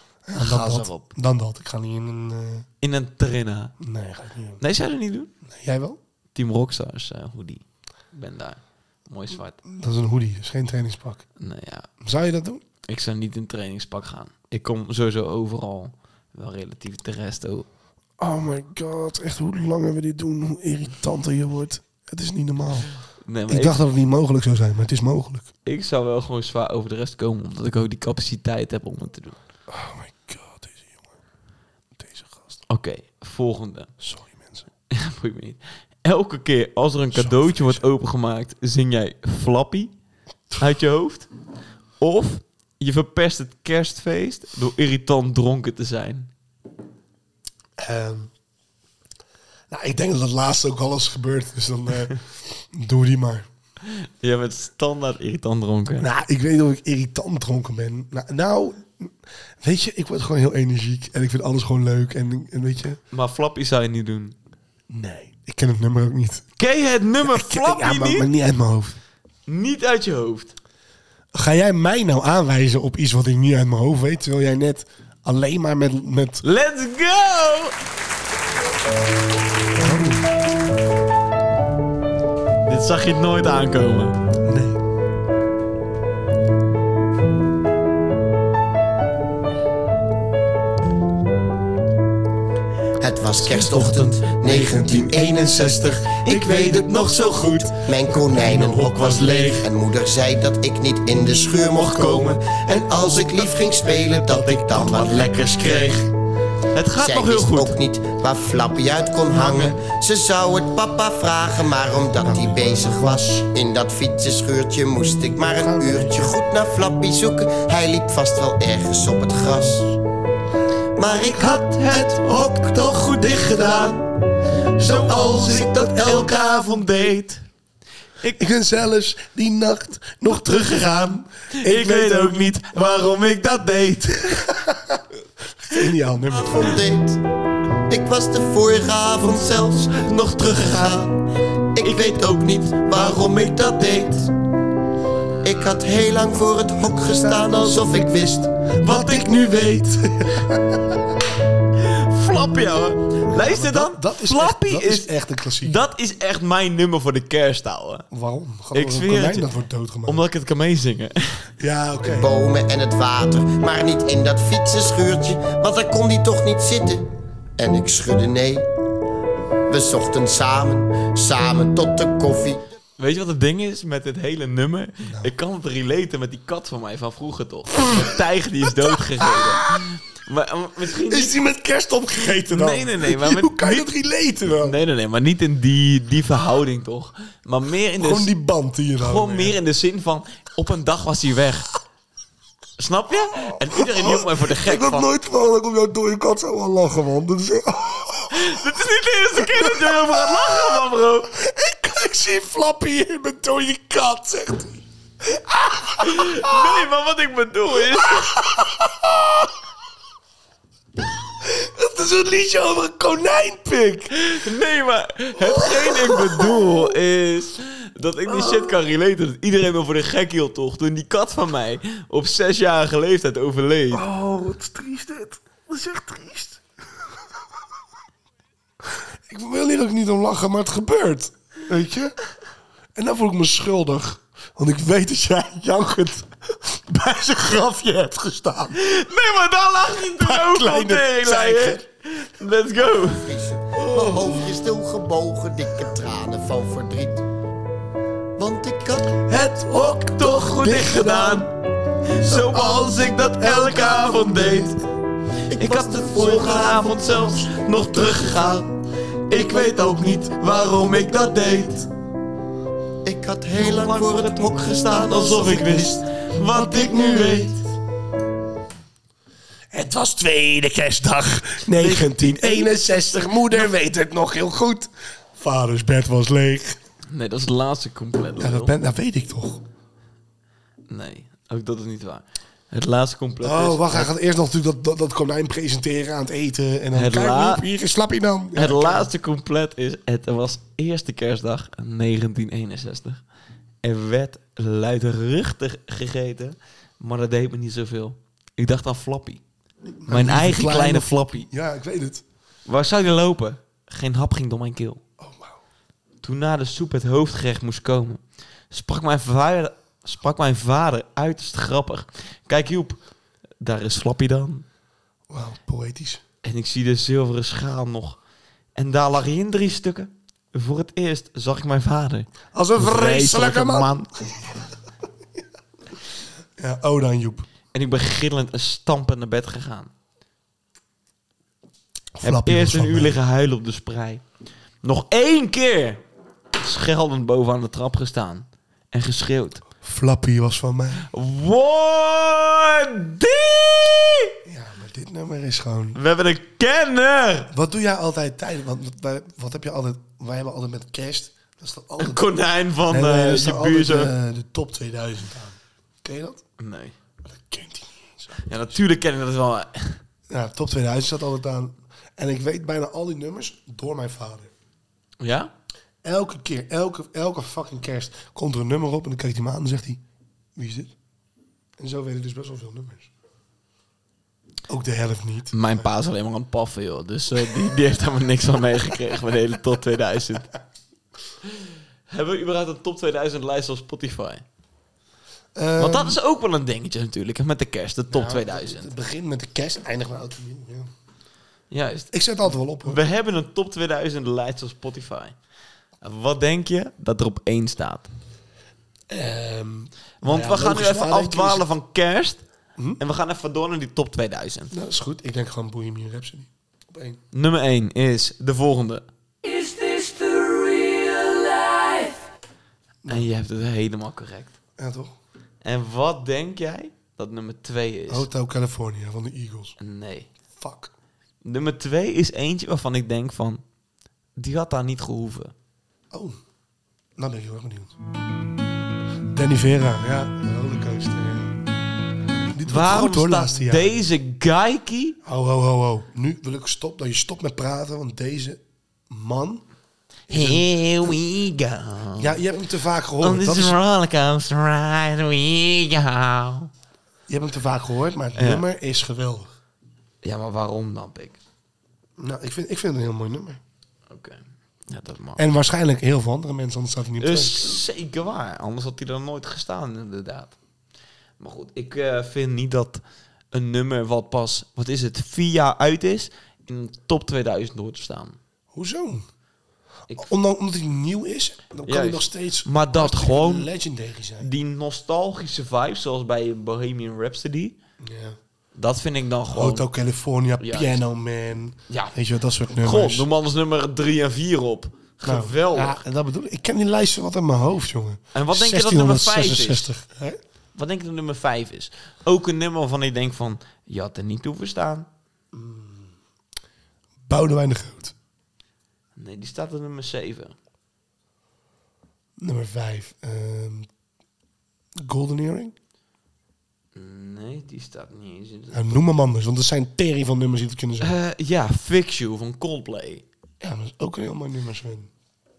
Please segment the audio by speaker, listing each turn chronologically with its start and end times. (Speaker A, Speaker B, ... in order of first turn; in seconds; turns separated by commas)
Speaker A: 0.2-2.6, Speaker B: 0.3-1.1, Speaker B: 2.8-3.7, Speaker A: 3.8-4.6, Speaker B: 4.6-5.3, Speaker A: 5.4-6.0, Speaker B: 6.3-9.6, Speaker A: 9.6-11.2, Speaker B: 11.4-11.9, Speaker A: 12.0-12.6, Speaker B: 12.9-17.7, Speaker A: 18.2-22.9, Speaker B: 23.2-23.8, Speaker A: 23.5-25.5, Speaker B: 25.6-29.4, Speaker A: 29.7-31.1, Speaker A: 31.9-32.6, Speaker B: 32.7-33.9, Speaker A: 34.0-34.7, Speaker B: 34.9-39.9, Speaker A: 37.1-37.8, Speaker B: 40.6-41.3, Speaker B: 42.0-46.3, Speaker A: 47.8-48.3, Speaker A: 49.7-53.5, Speaker B: 53.9-56.1, Speaker A: 56.0-63.0, Speaker B: 63.1-64.3, Speaker A: 64.9-66.4, Speaker B: 66.6-68.3, Speaker A: 67.2-69.0, Speaker B: 69.5-70.5, Speaker A: 71.3-76.4, Speaker B: 76.4-77.7, Speaker A: 79.7-80.3, Speaker B: 82.7-84.2, Speaker A: 84.4-84.8, Speaker C: 93.0-106.0, Speaker B: 93.4-99.6, Speaker B: 101.7-102.4, Speaker B: 104.5-106.0, Speaker B: 106.7-107.8, Speaker C: 107.0-119.9, Speaker A: 109.4-109.7, Speaker A: 112.0-113.3, Speaker A: 115.4-116.4, Speaker A: 119.5-119.8, Speaker C: 121.0-122.6, Speaker B: 121.1-124.0, Speaker B: 124.8-127.4, Speaker A: 128.4-132.4, Speaker B: 130.3-134.5, Speaker A: 134.3-136.8, Speaker C: 136.3-137.2, Speaker C: 137.9-141.1, Speaker B: 139.9-141.1, Speaker C: 141.7-144.1, Speaker B: 141.8-144.1, Speaker C: 145.4-148.5, Speaker A: 147.0-151.2, Speaker B: 148.8-149.6, Speaker B: 151.8-158.1, Speaker A: 153.3-155.8, Speaker A: 158.1-160.2, Speaker B: 158.7-159.5, Speaker B: 160.1-161.5, Speaker A: 161.6-162.3, Speaker C: 162.0-167.1, Speaker C: 167.6-168.7, Speaker C: 169.7-172.6, Speaker B: 173.0-181.3, Speaker A: 175.0-175.3, Speaker A: 177.9-179.8, Speaker A: 180.8-184.8, Speaker B: 182.4-183.9, Speaker B: 184.6-188.3, Speaker A: 188.0-189.6, Speaker B: 189.0-191.7, Speaker B: 192.8-195.1, Speaker A: 193.4-198.6, Speaker B: 198.3-201.3, Speaker A: 199.4-200.8, Speaker A: 201.3-206.8, Speaker B: 206.0-208.3, Speaker A: 207.8-209.5, Speaker A: 211.4-214.2, Speaker B: 214.2-224.0, Speaker A: 215.4-216.9, Speaker A: 218.2-218.8, Speaker A: 223.9-226.6, Speaker A: 228.9-232.1, Speaker A: 232.9-238.8, Speaker B: 238.7-244.4, Speaker A: 240.1-241.8, Speaker C: 243.1-247.2, Speaker C: 248.4-249.2, Speaker B: 249.3-251.5, Speaker A: 250.6-251.4, Speaker B: 252.0-254.8, Speaker C: 255.5-257.0, Speaker B: 255.5-258.7, Speaker B: 259.3-261.9, Speaker C: 263.0-266.0, Speaker B: 263.6-267.6, Speaker A: 269.7-276.8, Speaker B: 271.7-273.7, Speaker B: 277.1-278.7, Speaker A: 278.4-279.6, Speaker B: 280.9-284.1, Speaker A: 283.4-289.1, Speaker B: 286.9-287.6, Speaker B: 288.5-293.2, Speaker B: 293.8-299.4, Speaker A: 299.8-302.2, Speaker B: 300.1-301.5, Speaker B: 302.6-305.0, Speaker A: 305.2-305.6, Speaker B: 306.2-313.0, Speaker B: 313.6-314.6, Speaker A: 315.3-316.2, Speaker B: 316.4-318.2, Speaker B: 318.7-324.1, Speaker A: 322.5-324.6, Speaker A: 326.6-327.5, Speaker B: 327.7-329.9, Speaker A: 332.1-333.2, Speaker B: 332.2-334.2, Speaker B: 334.8-336.0, Speaker B: 336.5-339.6, Speaker A: 339.8-341.1, Speaker B: 341.1-344.3, Speaker A: 344.4-346.0, Speaker B: 345.9-347.5, Speaker A: 347.5-352.2, Speaker B: 352.0-354.1, Speaker A: 352.9-356.4, Speaker B: 356.6-356.9, Speaker A: 357.2-358.8, Speaker B: 358.4-360.0, Speaker A: 360.3-364.5, Speaker B: 365.2-365.5, Speaker A: 366.0-370.0, Speaker A: 370.6-370.9, Speaker A: 371.8-373.1, Speaker A: 374.7-375.9, Speaker B: 375.5-380.5, Speaker B: 382.1-384.4, Speaker A: 385.5-386.2, Speaker B: 385.8-388.9, Speaker A: 388.1-390.9, Speaker B: 391.7-392.1, Speaker A: 392.1-393.0, Speaker B: 392.8-395.4, Speaker B: 396.0-398.1, Speaker A: 399.1-401.7, Speaker B: 400.2-402.4, Speaker B: 403.0-404.7, Speaker A: 404.7-407.2, Speaker B: 407.3-409.0, Speaker D: 409.4-412.2, Speaker B: 413.1-414.6, Speaker A: 414.8-415.1, Speaker B: 415.6-418.3, Speaker A: 418.1-419.8, Speaker B: 419.8-420.3, Speaker A: 420.5-420.9, Speaker B: 421.4-423.6, Speaker B: 424.4-425.5, Speaker A: 426.1-426.4, Speaker A: 427.2-427.9, Speaker A: 429.3-431.6, Speaker A: 432.5-434.0, Speaker B: 432.6-435.2, Speaker A: 435.2-439.6, Speaker A: 440.3-441.1, Speaker B: 440.3-442.4, Speaker A: 442.2-443.8, Speaker B: 443.2-446.7, Speaker A: 447.3-449.5, Speaker B: 448.4-448.6, Speaker B: 450.2-451.4, Speaker A: 452.2-453.6, Speaker B: 454.1-455.5, Speaker A: 455.4-457.8, Speaker B: 457.2-460.6, Speaker B: 461.4-468.4, Speaker A: 468.7-469.3, Speaker A: 470.1-474.5, Speaker B: 471.9-473.7, Speaker B: 474.4-477.8, Speaker A: 478.0-478.4, Speaker B: 478.7-479.9, Speaker A: 479.5-483.3, Speaker B: 480.6-481.0, Speaker B: 481.9-482.1, Speaker B: 482.8-486.0, Speaker A: 485.2-490.4, Speaker B: 488.3-489.9, Speaker B: 490.7-495.1, Speaker A: 495.5-496.2, Speaker A: 497.2-498.1, Speaker B: 499.1-500.5, Speaker A: 502.4-503.9, Speaker A: 505.0-505.7, Speaker B: 506.9-509.0, Speaker A: 508.7-511.1, Speaker B: 511.0-513.2, Speaker A: 513.6-515.1